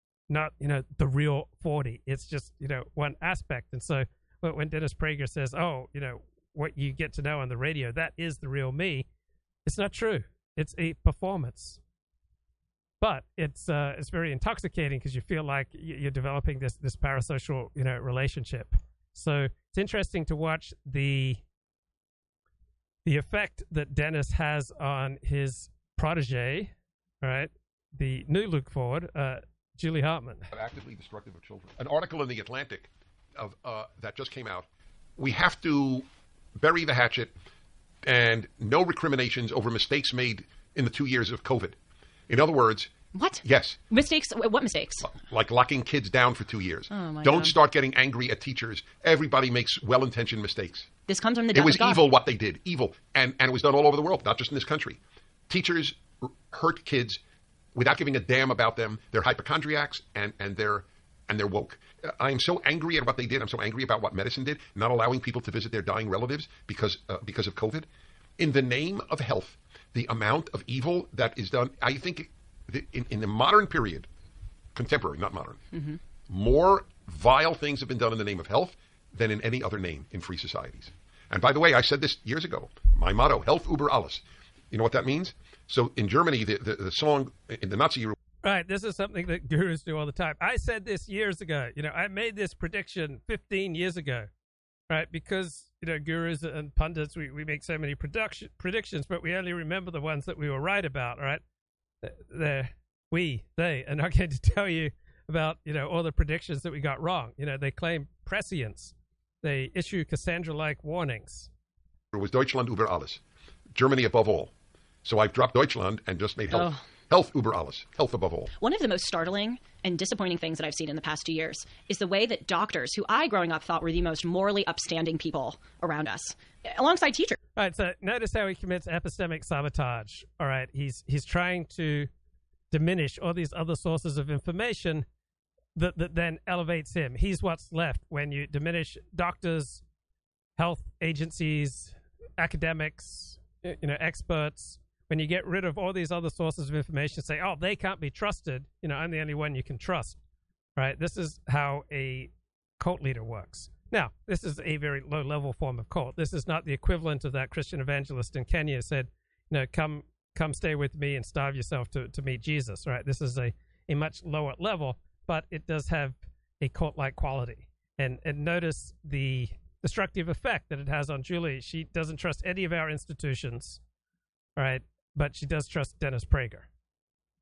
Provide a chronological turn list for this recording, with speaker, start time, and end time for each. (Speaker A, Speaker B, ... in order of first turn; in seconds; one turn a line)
Speaker A: 0.3-9.1
Speaker A: 9.7-11.8
Speaker A: 13.0-21.4
Speaker A: 23.1-30.5
Speaker B: 30.5-37.3
Speaker B: 38.0-41.8
Speaker B: 42.3-43.8
Speaker C: 43.1-45.1
Speaker B: 45.0-50.9
Speaker C: 46.9-47.5
Speaker C: 51.1-52.0
Speaker B: 51.5-57.2
Speaker B: 57.8-74.1
Speaker B: 74.8-88.2
Speaker A: 88.4-94.3
Speaker A: 94.9-101.4
Speaker A: 102.0-111.5
Speaker B: 112.1-113.2
Speaker B: 113.7-114.5
Speaker B: 115.0-118.5
Speaker C: 116.5-116.8
Speaker C: 118.6-127.4
Speaker A: 127.6-132.1
Speaker A: 132.7-135.1
Speaker A: 135.8-139.8
Speaker A: 140.6-150.2
Speaker A: 150.8-173.8
Speaker A: 174.6-176.7